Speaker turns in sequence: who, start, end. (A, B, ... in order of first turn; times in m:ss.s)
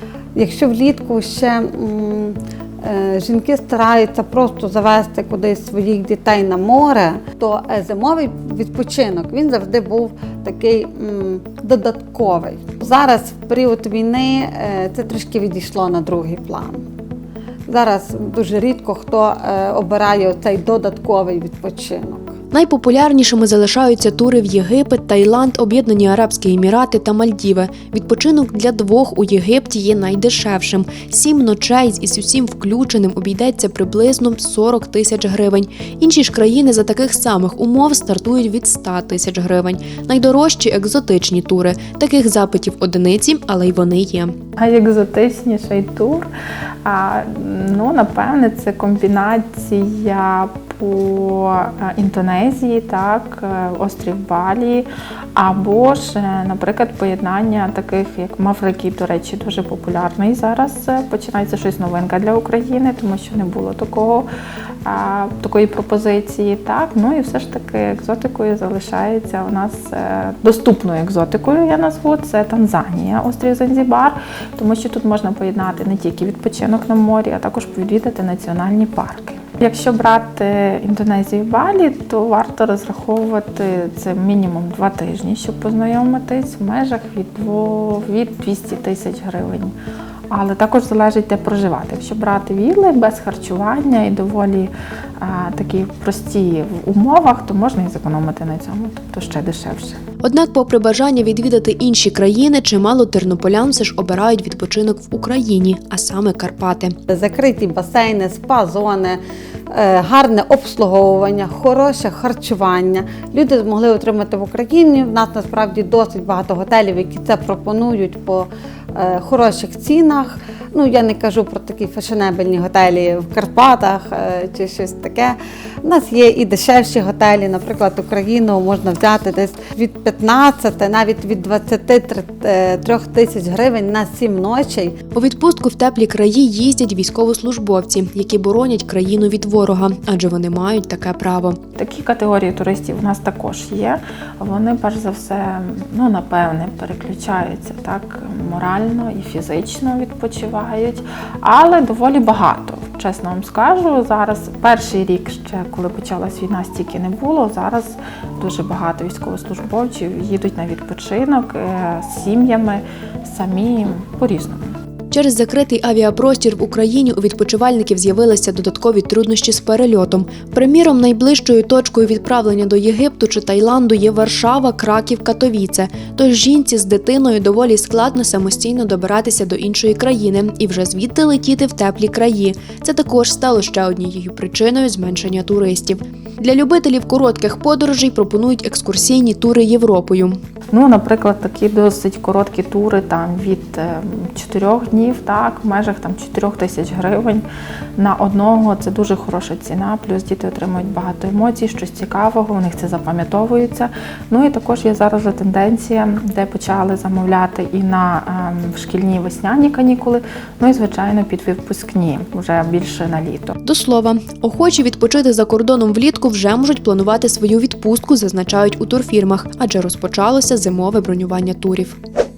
0:00.4-0:16.8 A
0:17.7-0:22.4 A
0:22.5-0:44.3 B
0:44.6-0:46.3 C
0:46.8-1:04.3 C
1:04.8-1:29.7 C
1:30.3-1:40.0 C
1:40.2-1:47.0 B
1:47.1-1:49.2 A
1:49.7-2:15.0 A
2:15.2-2:21.6 B
2:21.8-2:44.8 C
2:45.1-3:10.4 B
3:10.7-3:17.5 C
3:18.0-3:33.6 C
3:33.6-3:42.0 B